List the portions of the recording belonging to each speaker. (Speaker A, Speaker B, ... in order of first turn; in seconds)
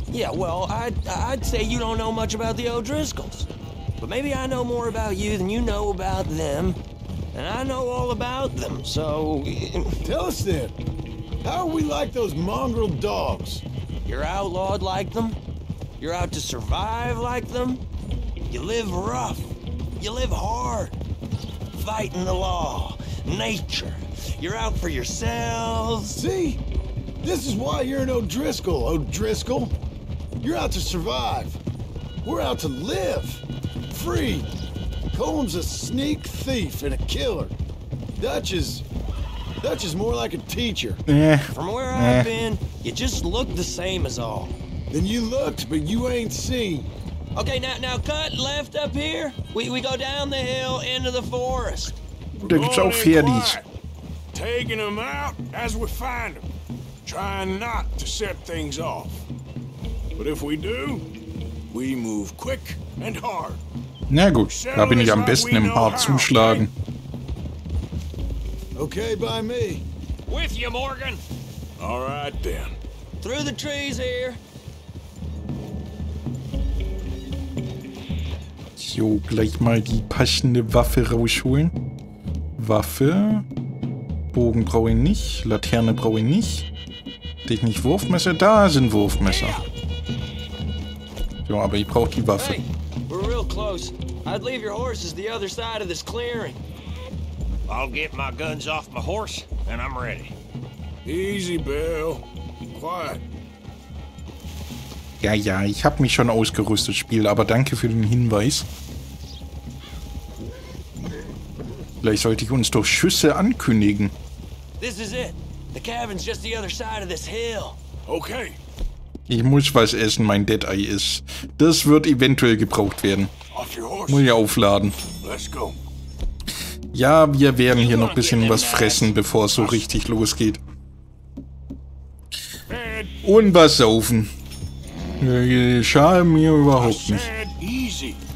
Speaker A: 0.1-3.5, 4.0-6.8, 7.3-10.0, 14.1-15.4, 16.0-17.8, 18.5-20.9, 21.7-26.2, 41.5-44.5, 47.3-52.0, 73.2-74.4, 89.2-89.6, 92.3-96.6, 114.8-117.8
Speaker B: 10.0-10.8, 11.4-13.6, 26.1-26.6, 27.2-29.7, 30.4-31.6, 32.2-34.5, 35.1-37.5, 38.2-38.8, 39.6-41.0, 44.9-46.9, 68.7-69.8
Speaker C: 41.1-42.3, 52.3-53.6, 64.1-66.7, 78.8-81.7, 82.6-83.5, 84.3-86.7, 87.4-89.6, 91.5-92.6, 105.2-108.7, 112.0-114.1, 119.3-123.3, 124.1-125.0, 126.9-130.6, 133.2-134.3, 135.2-137.3
Speaker D: 52.5-53.7, 54.3-56.5, 57.0-59.2, 60.1-61.1, 61.7-63.6, 64.5-66.7, 71.8-72.8, 101.0-103.2, 118.0-118.6, 123.5-124.3, 125.2-125.8, 132.7-133.1, 136.8-138.2
Speaker E: 70.3-71.2, 97.7-100.3, 127.8-129.1